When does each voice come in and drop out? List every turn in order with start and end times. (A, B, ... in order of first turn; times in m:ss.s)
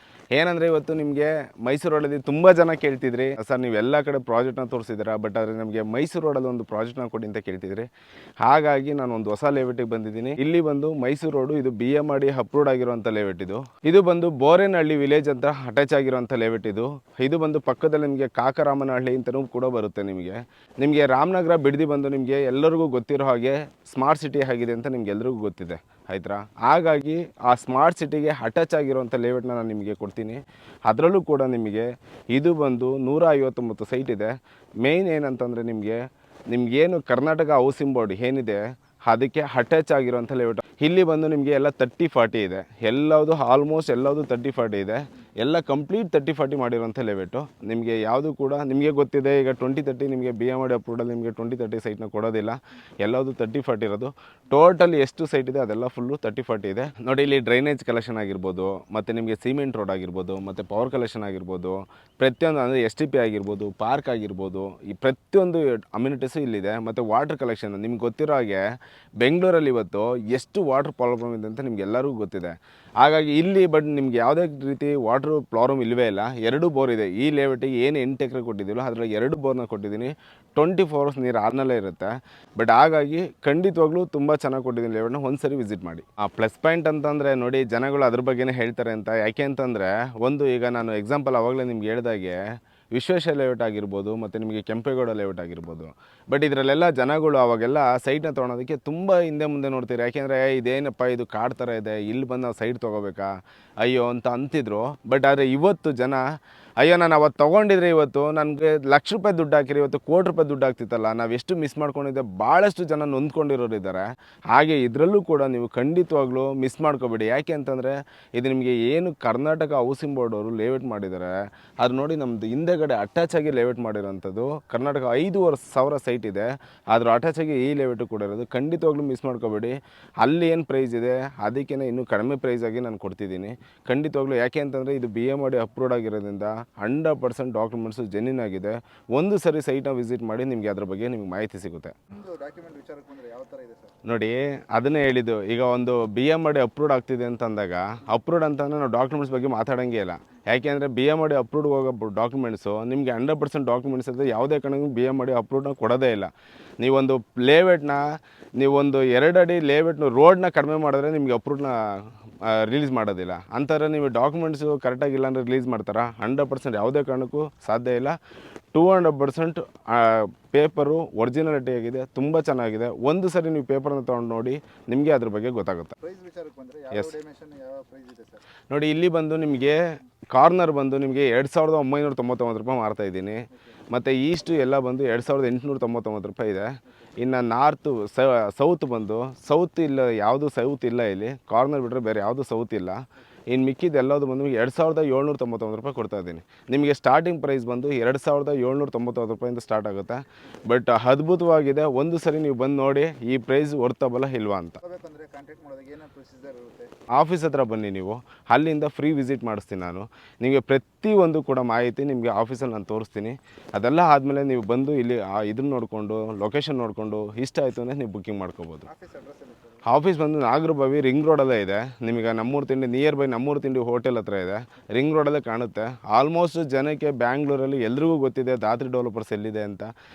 0:00.4-0:07.9 A
0:08.4-1:08.6 A
1:09.2-1:43.3 A
1:43.8-1:46.2 A
1:46.8-2:22.0 A
2:22.1-2:23.9 B
2:24.0-2:48.2 A
2:48.7-2:56.0 A
2:56.0-2:58.4 B
2:58.7-3:24.8 A
3:24.8-3:26.9 B
3:27.2-3:38.9 A
3:38.9-3:39.8 B
3:39.8-3:49.9 A